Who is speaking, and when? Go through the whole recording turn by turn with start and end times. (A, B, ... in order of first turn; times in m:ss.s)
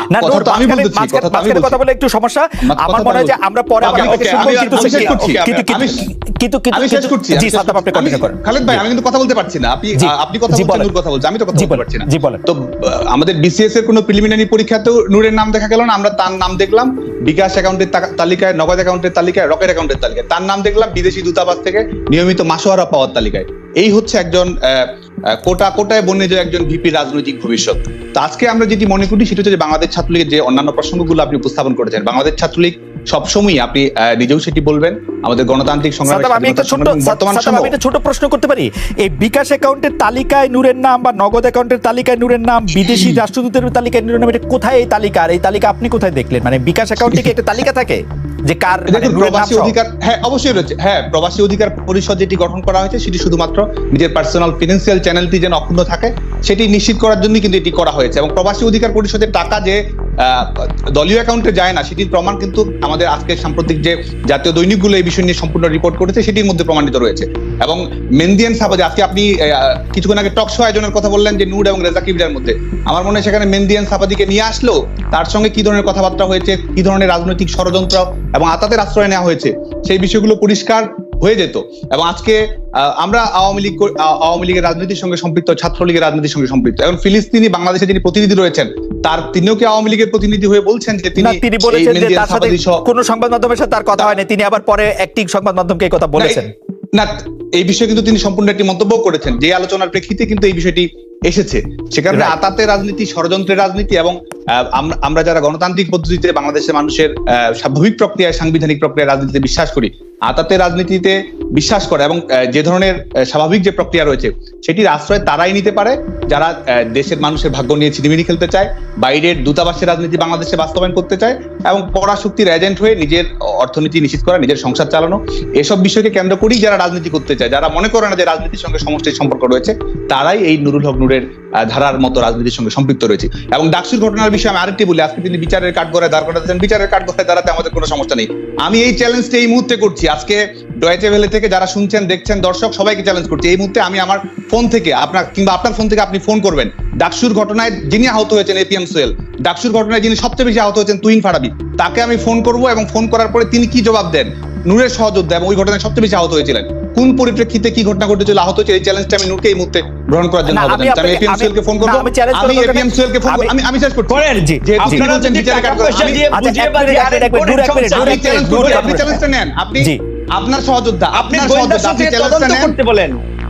0:00.1-0:08.8 A
0:00.1-0:01.8 B
0:02.6-0:06.1 B
0:03.8-0:05.7 C
0:06.7-0:37.7 B
0:10.0-0:10.9 A
0:11.5-0:12.4 A
0:36.1-0:49.7 A
0:48.9-1:32.8 B
1:31.2-1:36.5 A
1:36.2-2:46.3 B
2:40.5-2:43.5 A
2:44.1-2:49.1 C
2:44.4-2:45.1 A
2:46.3-2:49.2 A
2:47.9-2:52.8 B
2:51.1-2:53.2 C